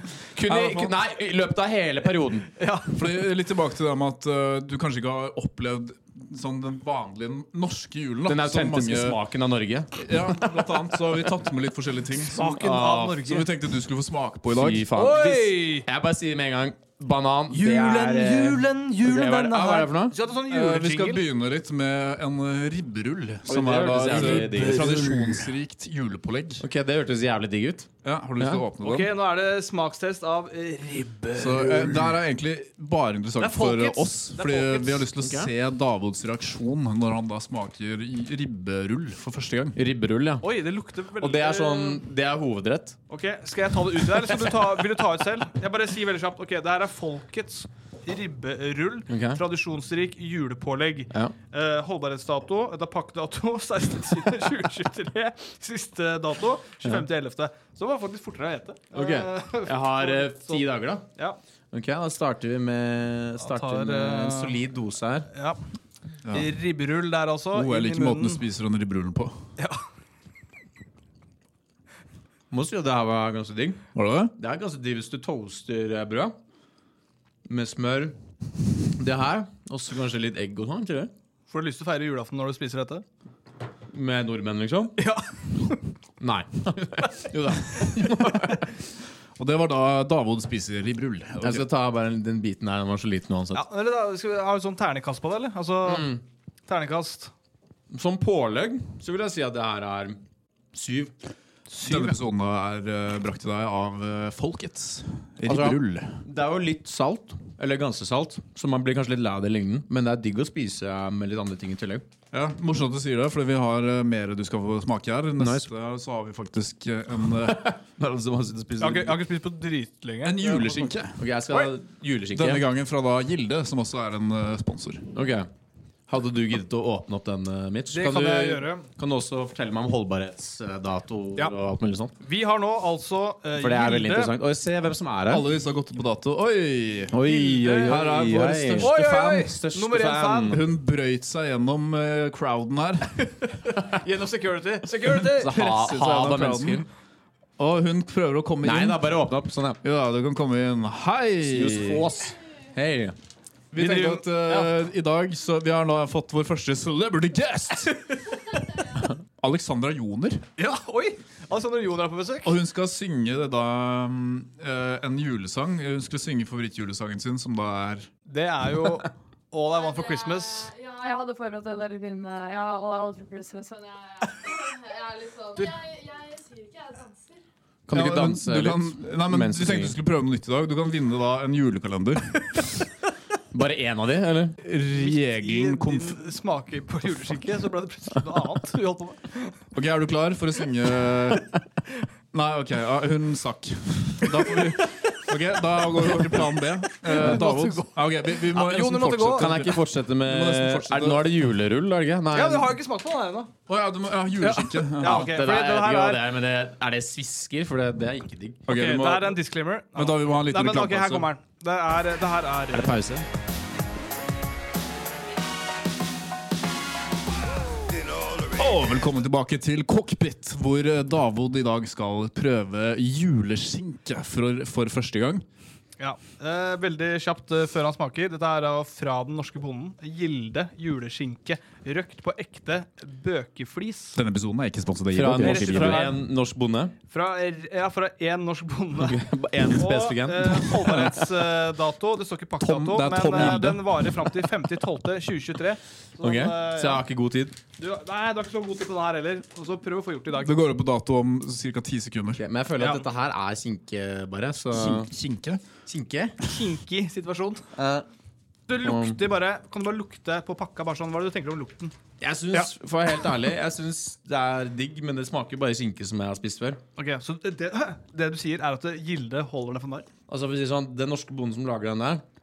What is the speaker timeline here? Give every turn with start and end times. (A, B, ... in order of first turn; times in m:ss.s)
0:00.3-0:02.5 A
0:00.4-0:00.9 B
0:02.6-0:03.0 C
0:02.9-0:09.2 B
0:08.2-0:10.0 A
0:10.0-0:12.5 B
0:12.3-0:13.5 C
0:12.4-0:13.2 A
0:13.2-0:14.9 B
0:14.5-0:20.2 A
0:14.9-0:15.9 C
0:17.5-0:21.2 C
0:20.3-0:26.6 B
0:23.5-0:25.2 A
0:24.0-0:25.4 C
0:26.6-0:28.6 A
0:28.0-0:29.1 B
0:28.8-0:32.2 C
0:31.4-0:39.8 B
0:33.4-0:35.1 C
0:35.2-0:35.5 A
0:39.7-0:40.4 A
0:40.4-0:42.0 C
0:41.2-0:43.0 A
0:43.1-1:01.4 C
0:49.1-0:49.4 A
0:58.9-1:01.0 A
1:01.7-1:05.3 A
1:03.4-1:04.6 C
1:05.3-1:05.6 C
1:06.2-1:06.6 B
1:06.3-1:08.4 C
1:07.5-1:09.4 B
1:12.5-1:13.8 A
1:13.9-1:14.3 B
1:14.4-1:16.3 A
1:17.4-1:18.1 A
1:19.0-1:21.1 A
1:21.5-1:23.0 C
1:23.9-1:25.0 A
1:25.0-1:25.9 C
1:26.2-1:28.7 A
1:29.4-1:31.6 B
1:31.4-1:33.6 A
1:33.5-1:37.3 C
1:35.8-1:36.2 A
1:37.9-1:40.2 A
1:40.7-1:41.1 A
1:41.7-1:42.2 C
1:41.8-1:46.2 B
1:45.4-1:52.0 A
1:52.3-1:57.7 B
1:55.4-1:55.7 A
1:57.4-1:59.2 A
1:58.8-2:00.9 C
2:00.2-2:01.2 B
2:01.2-2:02.6 A
2:02.3-2:05.1 B
2:05.1-2:05.5 A
2:06.1-2:12.1 A
2:07.9-2:08.9 C
2:12.2-2:14.3 C
2:13.5-2:15.4 A
2:15.3-2:17.2 B
2:17.1-2:20.6 A
2:17.2-2:18.0 C
2:17.8-2:18.9 B
2:18.8-2:20.6 C
2:20.5-2:23.3 B
2:23.4-2:25.5 C
2:25.0-2:26.8 B
2:25.4-2:26.8 A
2:27.6-2:29.1 B
2:28.6-2:29.8 A
2:29.8-2:32.0 B
2:31.4-2:33.2 A
2:33.7-2:38.0 B
2:33.7-2:34.7 C
2:39.4-2:40.4 B
2:40.6-2:42.6 C
2:42.4-2:48.1 B
2:48.3-2:50.7 C
2:49.8-2:57.4 D
2:57.9-3:00.0 A
2:57.9-3:02.7 B
3:03.5-3:04.6 A
3:04.6-3:06.2 B
3:04.9-3:09.6 C
3:09.7-3:11.5 B
3:12.3-3:21.3 B
3:14.4-3:14.7 C
3:17.0-3:19.6 C
3:19.4-3:22.7 A
3:22.3-3:23.5 C
3:23.7-3:25.3 B
3:24.4-3:26.2 C
3:25.0-3:28.6 A
3:28.7-3:29.4 B
3:28.7-3:33.0 C
3:29.9-3:31.3 B
3:32.7-3:33.2 A
3:38.5-3:45.4 B
3:46.0-3:54.2 C
3:54.2-3:56.1 B
3:55.1-3:56.9 A
3:55.4-3:56.2 C
3:57.1-3:59.2 C
3:59.0-4:01.0 A
3:59.7-4:07.0 C
4:00.6-4:01.2 B
4:02.6-4:04.3 B
4:03.4-4:03.6 A
4:06.2-4:07.6 A
4:07.8-4:10.5 C
4:10.4-4:12.4 B
4:12.4-4:15.1 A
4:12.8-4:13.0 C
4:14.7-4:15.6 B
4:15.8-4:16.3 A
4:16.4-4:17.7 C
4:17.7-4:18.0 A
4:18.7-4:21.9 C
4:18.8-4:19.2 A
4:22.2-4:26.8 A
4:27.0-4:30.1 C
4:30.3-4:32.2 A